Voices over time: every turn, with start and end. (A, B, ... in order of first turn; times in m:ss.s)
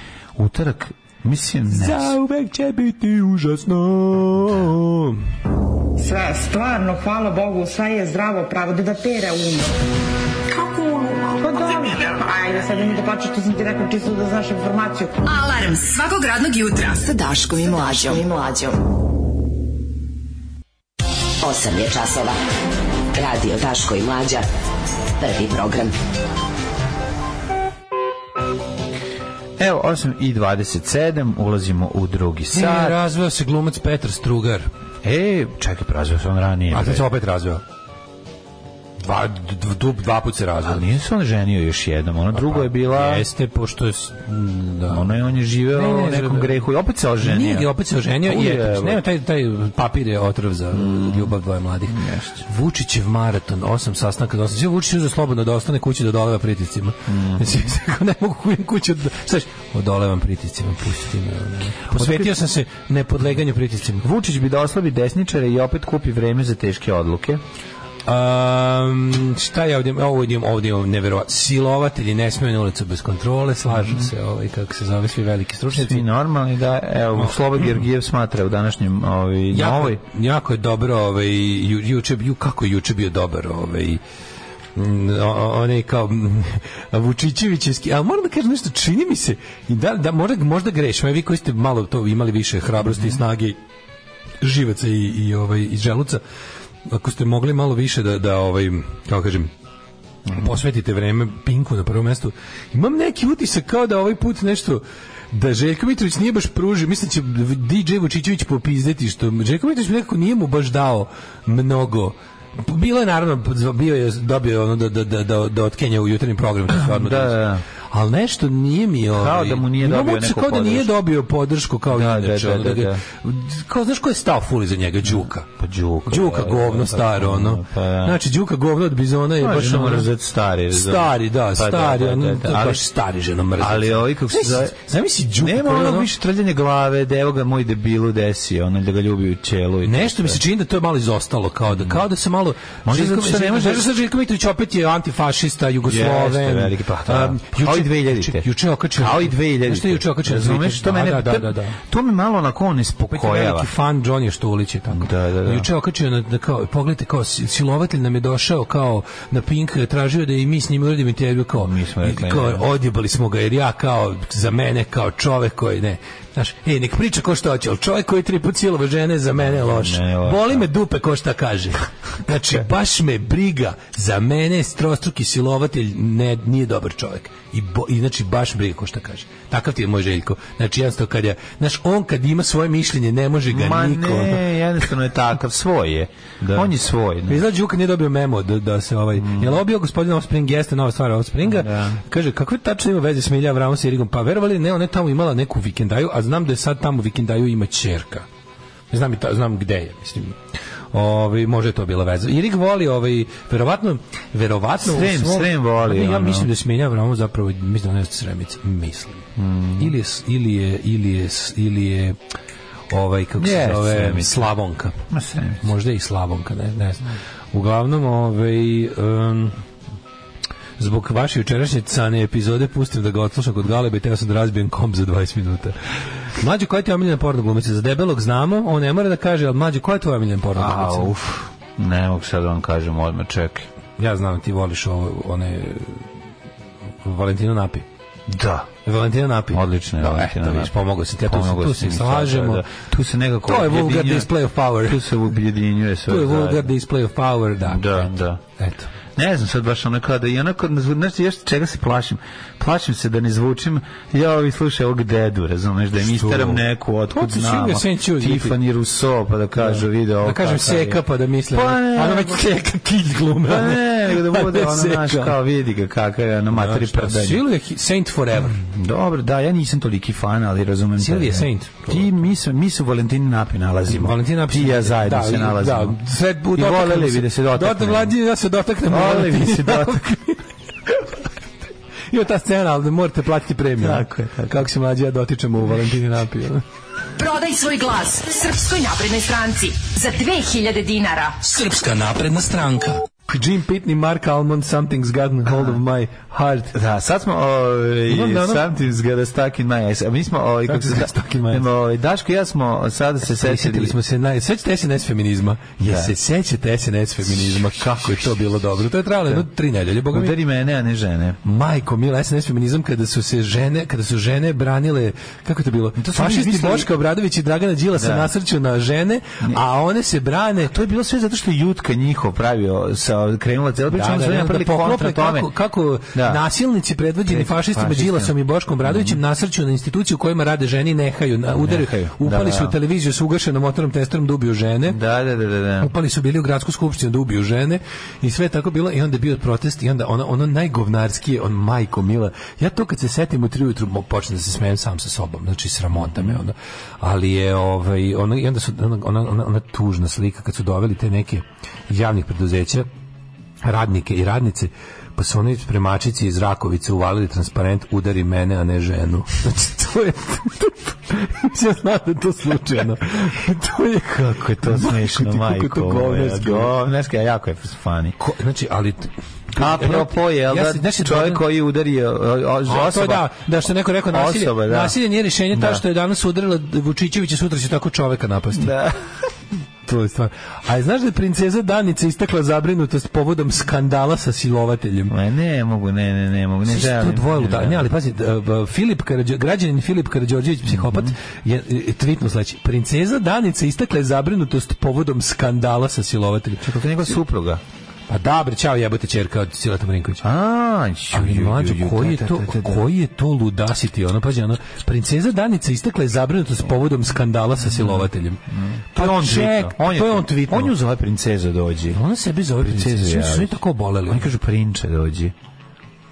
0:00.4-0:02.2 A
0:01.7-0:05.2 B
0:06.0-0:09.7 C
0:10.5-0:15.2 C
0:15.2-0:18.8 D
0:21.4-0:22.4 E
0:23.1-0:24.5 E
0:25.2-0:25.9 E
0:29.6-0:33.0 A
0:32.5-0:34.7 B
0:35.0-0:37.1 A
0:36.7-0:37.6 B
0:39.0-0:40.8 B
0:40.6-0:43.3 A
0:42.3-0:45.1 B
0:44.9-0:47.7 A
0:45.7-0:46.6 B
0:47.2-1:04.0 B
0:48.2-0:49.0 A
0:50.7-0:51.4 A
0:51.9-0:52.4 A
0:57.1-0:57.6 A
1:01.9-1:02.4 A
1:04.0-1:07.4 A
1:08.1-1:16.0 B
1:15.7-1:20.0 A
1:19.5-1:24.0 B
1:24.8-1:33.6 B
1:32.9-1:33.2 A
1:34.4-1:36.2 B
1:36.9-1:39.5 B
1:40.3-2:05.5 B
1:56.8-1:57.6 A
1:59.1-2:00.9 A
2:01.9-2:03.0 A
2:05.1-2:08.2 A
2:06.1-2:10.1 B
2:09.4-2:12.8 A
2:10.7-2:16.1 B
2:13.6-2:14.8 A
2:15.4-2:20.4 A
2:19.8-2:31.8 B
2:21.7-2:22.0 A
2:22.8-2:23.9 A
2:25.8-2:33.7 A
2:33.1-3:04.5 B
2:34.9-2:35.7 A
2:41.6-2:42.7 A
2:49.4-2:50.7 A
3:03.5-3:07.4 A
3:07.3-3:18.3 B
3:09.2-3:09.6 A
3:11.4-3:12.0 A
3:18.9-3:20.4 B
3:20.9-3:29.2 B
3:24.8-3:26.5 A
3:29.4-3:29.9 A
3:29.8-3:32.2 B
3:32.9-3:35.0 B
3:33.4-3:34.5 A
3:35.1-3:35.6 A
3:35.6-3:39.6 B
3:40.8-3:45.8 B
3:46.4-3:51.1 B
3:50.6-3:53.7 A
3:54.0-3:56.0 B
3:57.0-3:57.8 B
3:58.3-3:58.7 A
3:58.8-4:02.6 B
3:59.5-4:06.7 A
4:03.4-4:05.1 B
4:06.1-4:08.9 B
4:07.6-4:08.4 A
4:09.2-4:22.5 A
4:16.0-4:18.6 B
4:19.6-4:25.4 B
4:23.4-4:27.4 A
4:26.5-4:28.6 B
4:28.5-4:36.0 A
4:31.0-4:32.1 B
4:33.9-4:41.0 B
4:36.5-4:38.2 A
4:38.9-4:40.2 A
4:42.1-4:46.6 B
4:43.8-4:44.6 A
4:47.2-4:51.4 D
4:51.4-4:56.8 B
4:56.7-5:04.0 A
4:58.1-4:58.7 B
5:00.7-5:01.7 B
5:03.3-5:10.4 B
5:05.8-5:06.1 A
5:07.4-5:08.1 A
5:10.1-5:11.4 A
5:11.4-5:20.7 B
5:16.0-5:16.9 A
5:18.0-5:18.3 A
5:20.6-5:25.5 A
5:23.9-5:35.0 B
5:26.1-5:26.4 A
5:27.3-5:29.2 A
5:31.6-5:32.8 A
5:34.9-5:35.9 A
5:35.8-5:52.9 B
5:45.9-5:46.4 A
5:53.6-6:06.7 B
6:04.1-6:08.2 A
6:08.2-6:11.4 B
6:09.5-6:13.3 A
6:12.7-6:18.8 B
6:14.1-6:15.0 A
6:15.5-6:15.8 A
6:18.5-6:19.0 A
6:19.8-6:25.1 B
6:25.1-6:27.9 A
6:26.7-6:36.7 B
6:30.7-6:31.1 A
6:36.6-6:37.6 A
6:38.1-6:40.3 B
6:40.2-6:42.8 A
6:41.1-6:48.4 B
6:47.6-6:52.0 A
6:49.0-6:50.7 B
6:51.9-6:54.3 B
6:52.6-6:55.3 A